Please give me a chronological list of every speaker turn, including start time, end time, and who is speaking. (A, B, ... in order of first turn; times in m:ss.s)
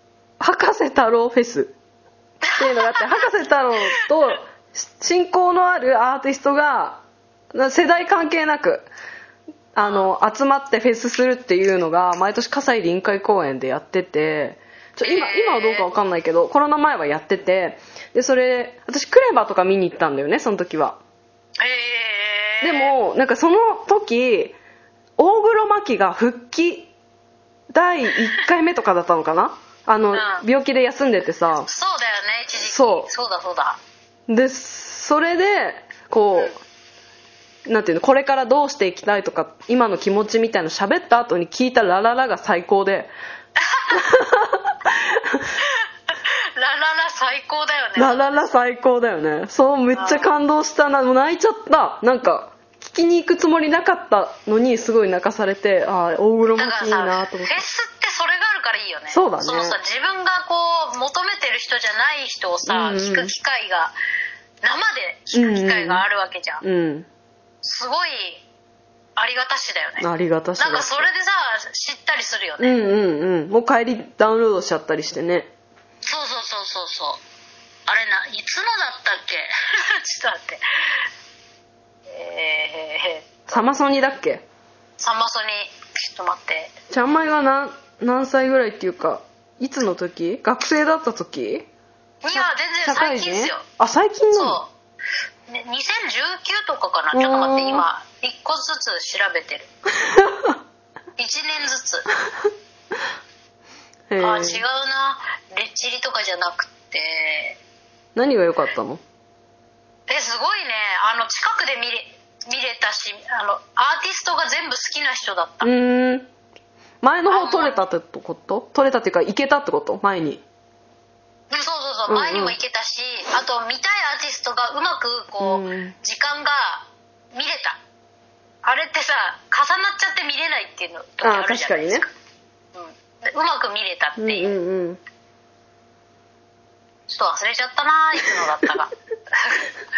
0:00.4-0:01.7 A
0:02.4-0:03.3 B
0:02.6-0:07.0 A
0:07.5-0:08.9 A
0:09.7-0:21.0 A
0:15.0-0:15.9 B
0:21.6-0:22.9 B
0:22.6-0:24.6 A
0:25.2-0:26.9 A
0:27.7-0:31.7 A
0:30.1-0:30.4 B
0:31.6-0:33.8 B
0:32.6-0:33.1 A
0:34.3-0:36.6 A
0:37.6-0:43.1 A
0:43.6-0:44.0 B
0:43.9-0:45.5 A
0:45.6-0:48.4 B
0:48.0-0:57.6 A
0:49.9-0:50.3 B
0:56.6-1:03.9 B
0:59.1-0:59.8 A
1:02.6-1:03.3 A
1:04.6-1:06.6 B
1:05.3-1:06.0 A
1:06.6-1:07.1 A
1:07.6-1:08.4 B
1:09.2-1:10.0 B
1:10.0-1:11.1 A
1:10.6-1:12.8 B
1:12.6-1:15.5 A
1:16.0-1:17.2 B
1:17.9-1:21.0 B
1:22.1-1:23.6 B
1:23.5-1:24.4 A
1:25.0-1:26.7 B
1:26.9-1:31.7 A
1:32.2-1:33.6 B
1:32.3-1:34.6 A
1:34.3-1:34.7 B
1:35.5-1:39.7 B
1:37.1-1:37.8 A
1:40.0-1:40.5 A
1:41.2-1:42.1 B
1:44.1-1:44.6 A
1:44.2-1:47.6 B
1:48.1-1:49.0 A
1:50.1-1:55.7 B
1:55.6-1:56.3 A
1:57.0-2:00.4 A
1:57.3-1:57.8 B
2:01.5-2:07.8 B
2:02.1-2:02.6 A
2:05.4-2:05.9 A
2:08.6-2:12.1 B
2:11.2-2:12.0 A
2:12.7-2:14.6 B
2:14.2-2:15.0 A
2:17.1-2:19.7 B